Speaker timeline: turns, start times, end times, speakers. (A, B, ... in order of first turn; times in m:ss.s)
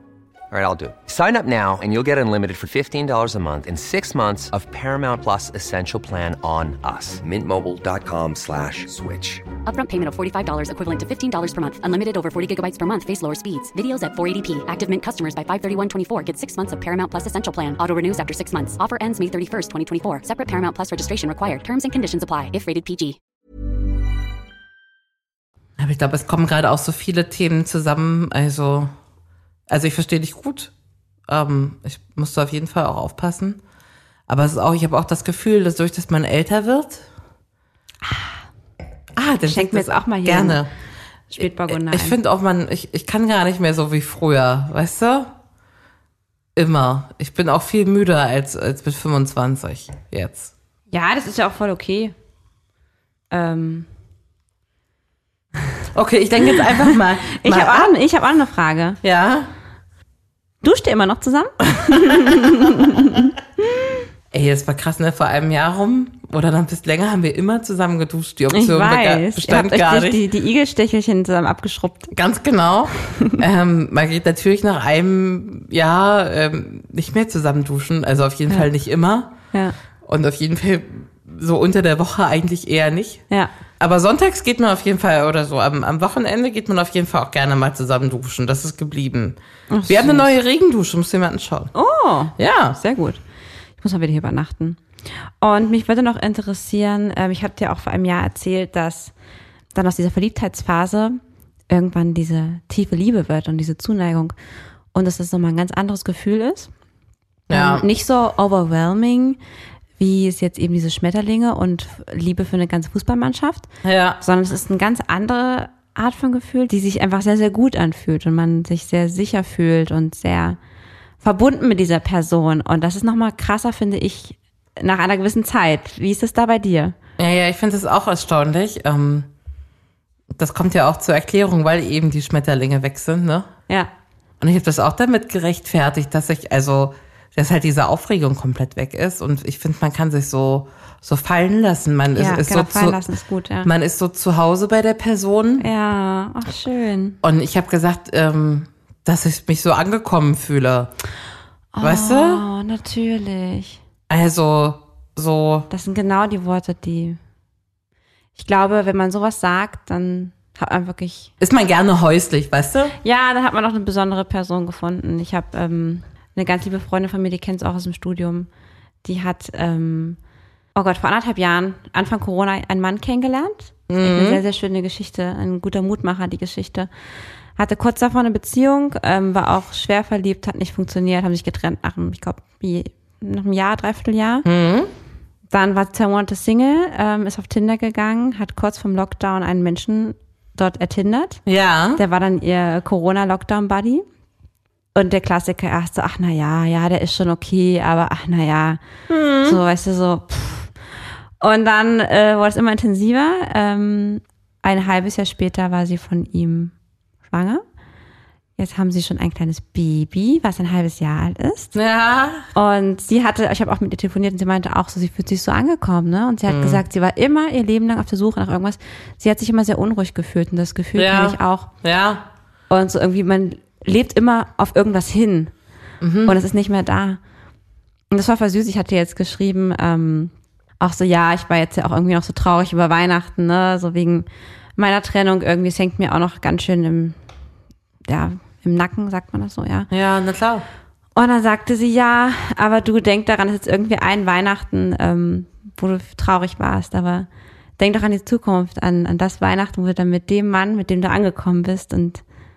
0:00.5-0:09.5 A
0:09.6-0:23.2 B
0:25.8-0:28.9 C
0:29.7-0:30.7 C
0:31.3-0:33.6 C
0:34.3-0:37.0 C
0:38.0-0:38.3 D
0:39.2-0:40.7 C
0:39.4-0:40.6 D
0:41.3-0:42.2 D
0:41.4-0:45.3 C
0:46.6-0:50.5 C
0:50.9-0:52.1 D
0:53.3-0:53.9 D
0:55.9-0:57.9 C
0:56.8-0:59.0 D
0:59.0-0:59.5 C
1:00.6-1:04.0 D
1:01.8-1:02.4 C
1:04.3-1:10.2 C
1:08.5-1:12.1 D
1:12.1-1:19.3 C
1:13.1-1:13.4 D
1:20.0-1:23.2 C
1:23.8-1:31.7 C
1:29.7-1:30.3 D
1:31.7-1:33.2 D
1:32.4-1:32.8 C
1:33.8-1:34.8 D
1:35.4-1:39.1 D
1:39.7-1:44.3 D
1:44.9-1:46.7 D
1:47.5-1:47.8 C
1:47.5-1:49.4 D
1:50.0-2:00.6 D
1:53.8-1:54.2 C
2:01.2-2:07.0 D
2:07.2-2:09.3 C
2:10.3-2:13.5 C
2:14.4-2:23.0 C
2:22.1-2:23.7 D
2:23.6-2:25.7 C
2:25.6-2:27.2 D
2:27.2-2:30.9 C
2:31.7-2:33.8 D
2:31.8-2:32.4 C
2:34.1-2:35.7 C
2:35.7-2:37.2 D
2:38.4-2:41.3 D
2:41.4-2:43.0 C
2:43.0-2:48.5 D
2:49.0-2:50.2 D
2:50.7-2:56.9 D
2:53.9-2:54.4 C
2:57.6-3:04.4 D
3:04.4-3:04.9 C
3:05.5-3:11.4 D
3:11.4-3:12.0 C
3:12.0-3:14.0 D
3:14.9-3:18.8 D
3:19.1-3:19.6 C
3:19.4-3:20.7 D
3:21.4-3:26.7 D
3:27.3-3:27.6 D
3:28.6-3:31.8 D
3:31.7-3:32.5 C
3:32.5-3:41.7 D
3:36.5-3:36.8 C
3:41.0-3:42.2 C
3:42.7-3:45.5 D
3:46.0-3:46.4 C
3:46.2-3:47.2 D
3:48.1-3:54.2 D
3:54.8-3:57.1 D
3:58.0-3:59.9 D
3:59.9-4:00.6 C
4:01.2-4:07.3 D
4:07.8-4:12.2 D